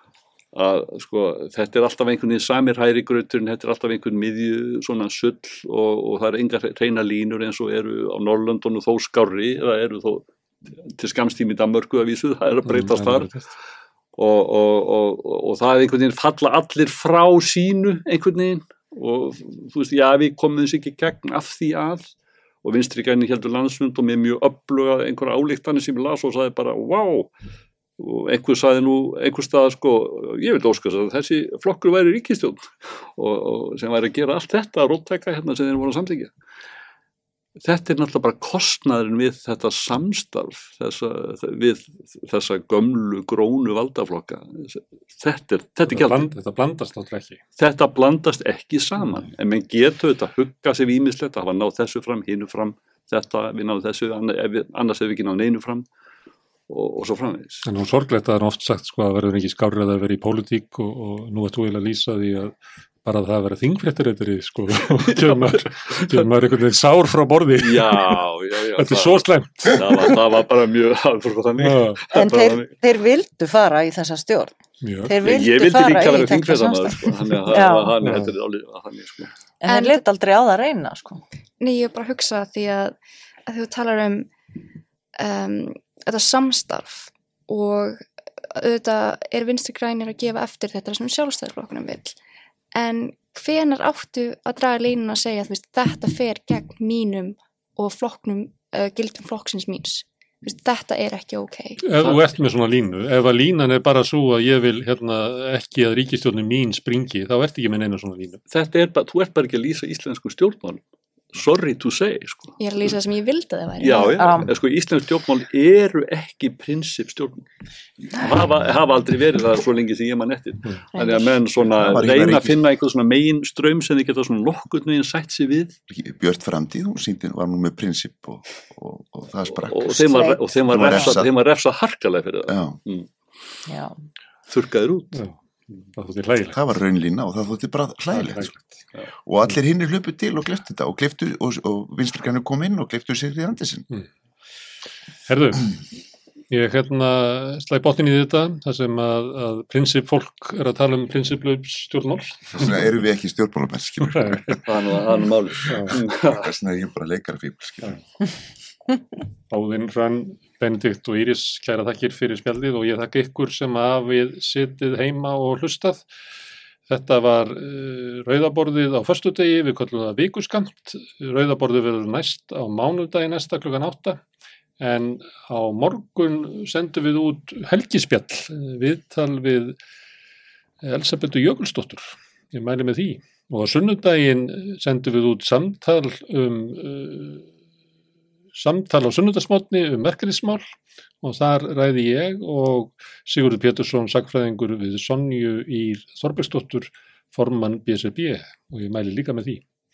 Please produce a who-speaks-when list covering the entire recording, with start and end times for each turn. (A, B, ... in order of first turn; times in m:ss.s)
0:00.5-0:10.3 A
0:10.8-0:13.3 A
0:12.6-0:13.4 B
0:14.2-0:22.1 A
0:22.6-0:27.3 A
0:28.0-0:36.3 A
0:37.6-0:46.3 A
0:45.9-0:47.4 B
0:47.6-0:55.8 A
0:56.7-0:57.6 A
0:57.6-1:08.2 B
1:04.9-1:06.3 A
1:07.6-1:12.7 A
1:08.8-1:09.8 B
1:11.6-1:12.0 B
1:12.1-1:17.9 C
1:14.8-1:15.2 B
1:15.2-1:19.3 A
1:18.0-1:18.3 B
1:19.6-1:21.2 C
1:19.7-1:20.0 D
1:21.6-1:24.3 D
1:25.2-1:28.0 D
1:28.5-1:32.2 D
1:32.7-1:41.8 D
1:41.8-1:48.4 B
1:48.5-1:50.8 A
1:51.3-1:52.6 A
1:52.6-1:54.3 D
1:53.8-1:57.4 A
1:54.1-1:54.5 C
1:58.1-2:05.7 A
2:00.9-2:01.3 D
2:01.7-2:02.6 E
2:05.9-2:11.3 E
2:09.6-2:13.1 A
2:10.1-2:10.4 C
2:12.5-2:12.8 E
2:13.7-2:13.9 C
2:14.5-2:15.2 A
2:15.1-2:16.6 B
2:16.5-2:18.6 E
2:18.1-2:18.7 B
2:19.2-2:23.9 E
2:25.2-2:25.7 B
2:26.5-2:32.8 B
2:32.5-2:34.7 E
2:34.0-2:34.6 B
2:34.6-2:36.5 A
2:35.7-2:35.9 B
2:35.9-2:38.0 E
2:39.5-2:46.0 B
2:46.9-2:54.2 B
2:54.8-2:59.8 B
3:00.8-3:07.5 B
3:08.6-3:10.6 B
3:11.2-3:19.6 B